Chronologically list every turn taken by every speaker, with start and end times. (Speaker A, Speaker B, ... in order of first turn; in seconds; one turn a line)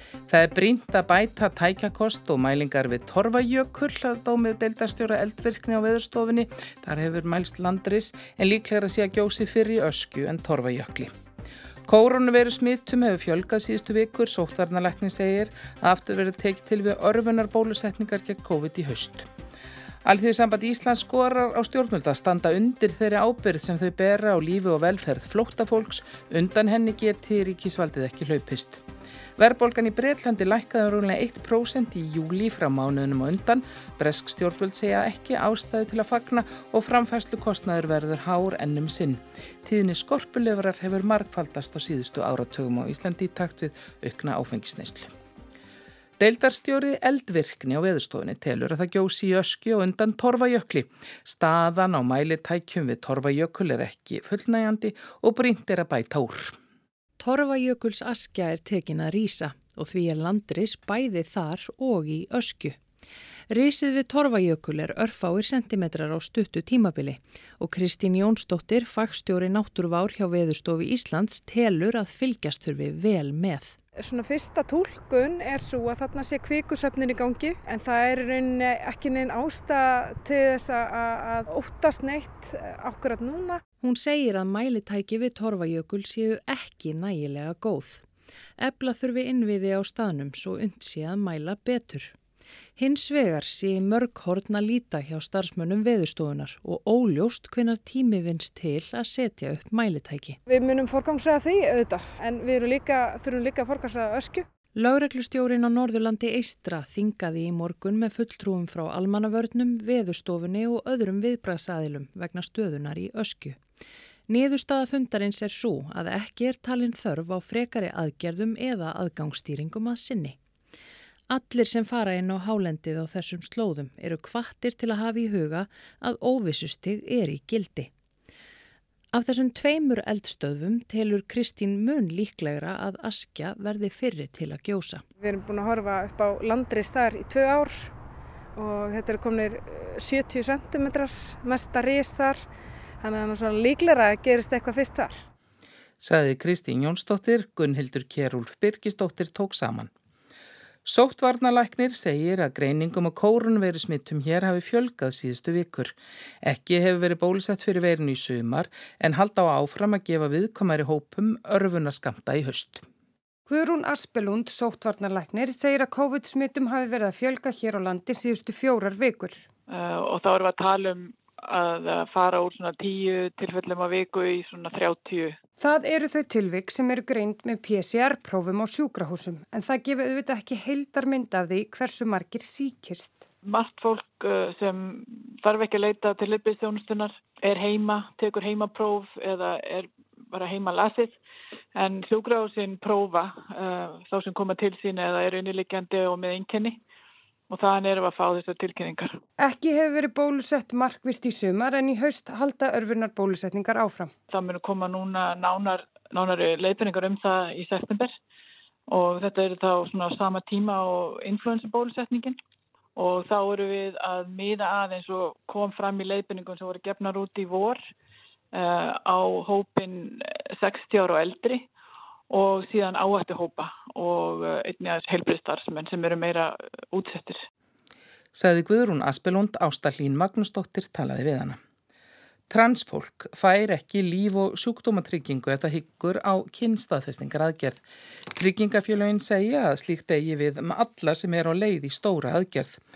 Speaker A: 0.3-11.1
Speaker A: 11.9-19.3
Speaker A: 20.0-28.8
Speaker A: 29.4-45.1
Speaker A: 46.2-56.6
Speaker B: 57.2-62.8
Speaker B: 63.5-73.8
Speaker C: 74.0-83.6
Speaker B: 83.8-88.0
Speaker B: 88.6-92.1
Speaker B: 92.8-100.4
Speaker C: 100.5-104.5
Speaker B: 104.8-113.6
Speaker B: 114.3-120.4
Speaker B: 121.3-127.9
Speaker B: 129.1-135.0
Speaker C: 135.2-137.9
Speaker C: 138.6-142.4
Speaker C: 143.0-145.2
Speaker A: 146.0-149.9
Speaker A: 150.8-162.8
Speaker D: 163.5-169.5
Speaker E: 169.7-175.4
Speaker D: 175.6-183.3
Speaker E: 183.4-191.2
Speaker E: 191.8-196.8
Speaker E: 197.5-199.2
Speaker D: 199.4-204.1
Speaker E: 204.3-208.2
Speaker E: 208.9-212.4
Speaker E: 213.0-217.8
Speaker E: 218.5-221.7
Speaker E: 222.3-227.4
Speaker A: 228.3-231.6
Speaker A: 232.5-242.8